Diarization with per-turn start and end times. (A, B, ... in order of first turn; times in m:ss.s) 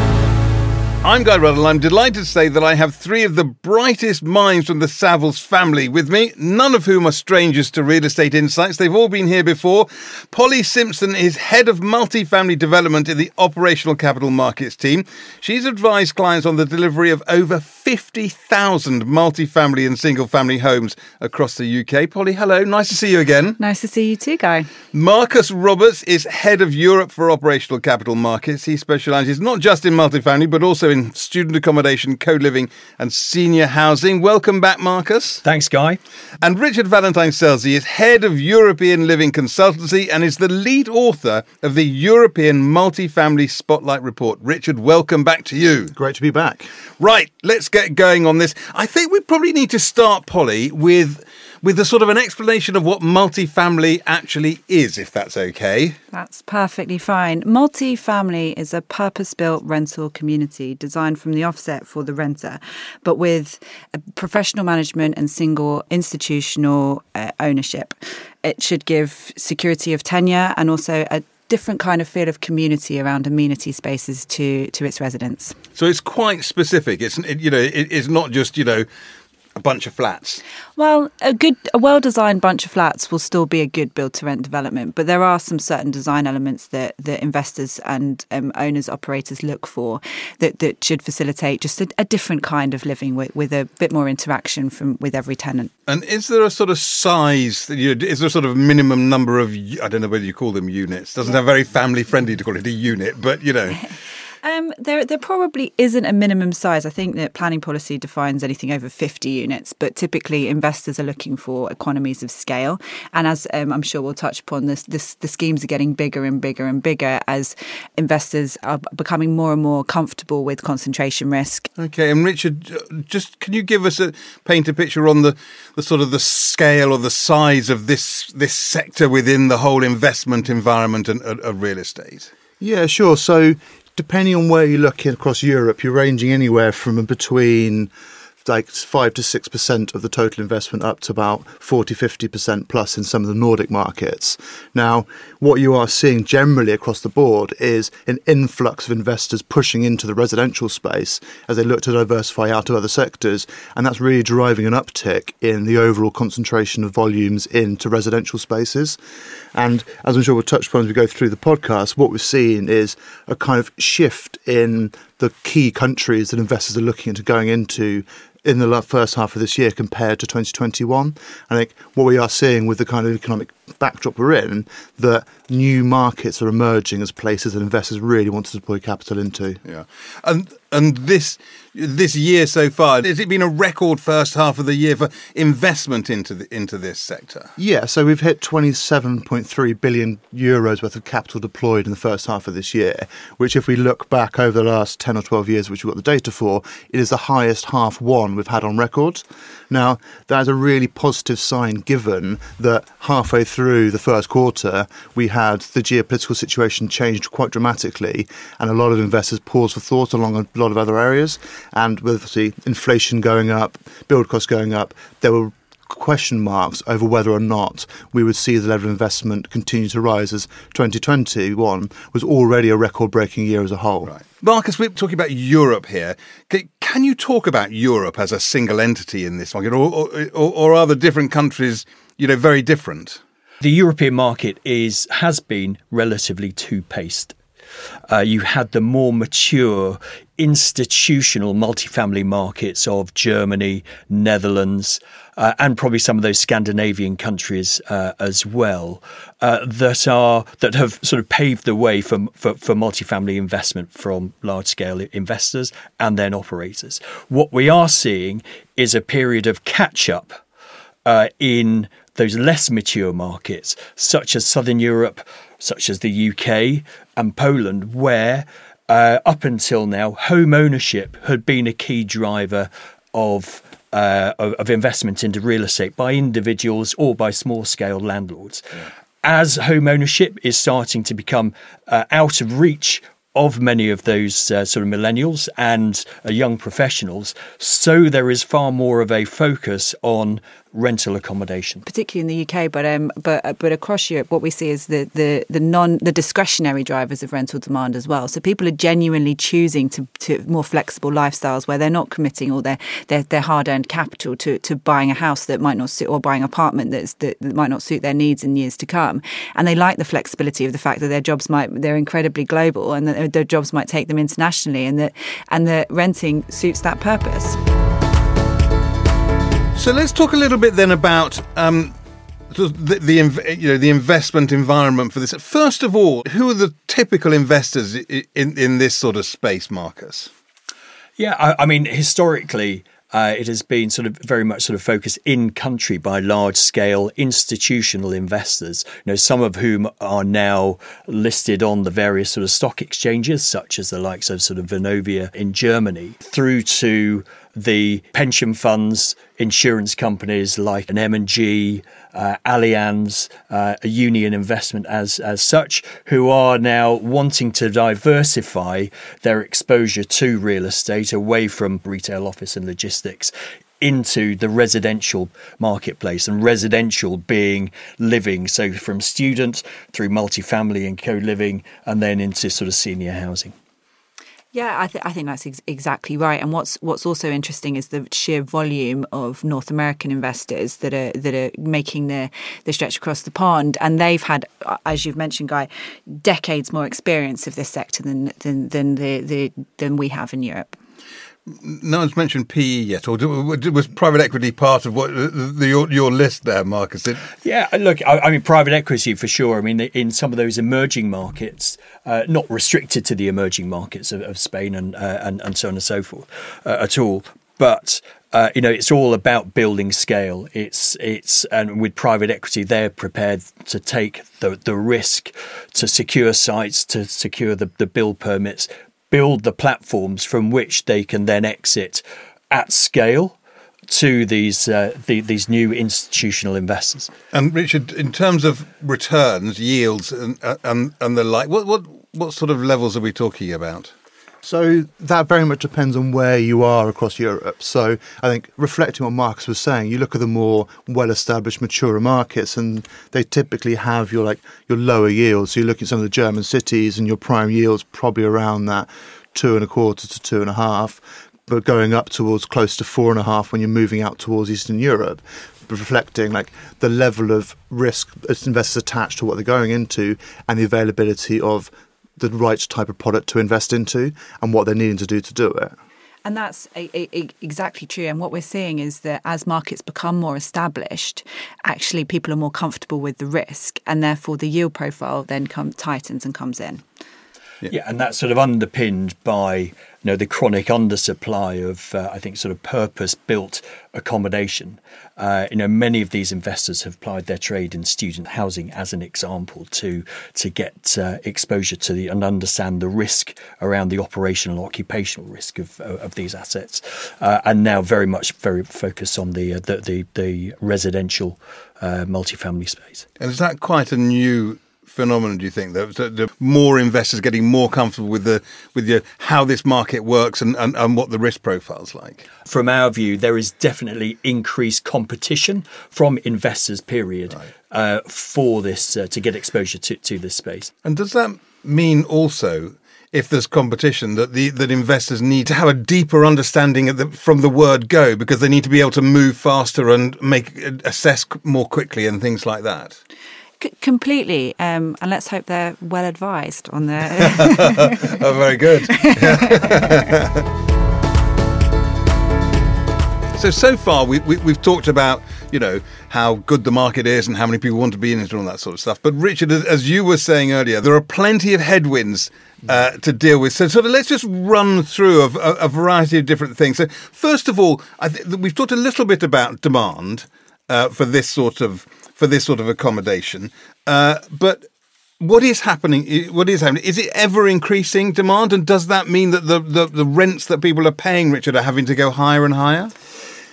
0:01.0-0:23.6 A
0:23.6-0:24.7 B
0:24.9-0:35.4 A
0:35.4-0:36.0 C
0:36.4-0:45.9 A
0:45.9-0:46.7 D
0:47.0-0:56.0 A
0:56.1-1:15.6 B
1:15.8-1:18.9 A
1:19.6-1:20.4 A
1:20.8-1:35.7 B
1:35.9-1:43.9 A
1:44.4-2:01.7 B
2:01.8-2:12.3 A
2:12.6-2:17.9 D
2:18.4-2:39.0 D
2:39.5-2:59.6 D
2:59.7-3:07.5 A
3:07.6-3:44.1 D
3:44.1-3:53.2 A
3:53.6-3:57.4 C
3:58.1-4:20.4 C
4:21.0-4:51.8 C
4:51.8-5:17.6 B
5:19.8-5:21.9 A
5:22.5-5:30.3 A
5:31.2-6:13.5 C
6:14.5-6:30.8 B
6:31.6-6:37.2 A
6:37.4-7:03.4 C
7:03.9-7:07.1 C
7:07.3-7:13.9 A
7:14.4-7:45.8 D
7:46.2-7:56.8 B
7:57.7-8:23.0 C
8:23.2-8:32.2 A
8:32.5-8:40.7 C
8:40.8-8:53.0 A
8:53.6-8:58.2 B
8:57.2-9:00.4 A
8:58.9-9:00.1 B
9:03.4-9:24.6 A
9:25.2-9:32.9 A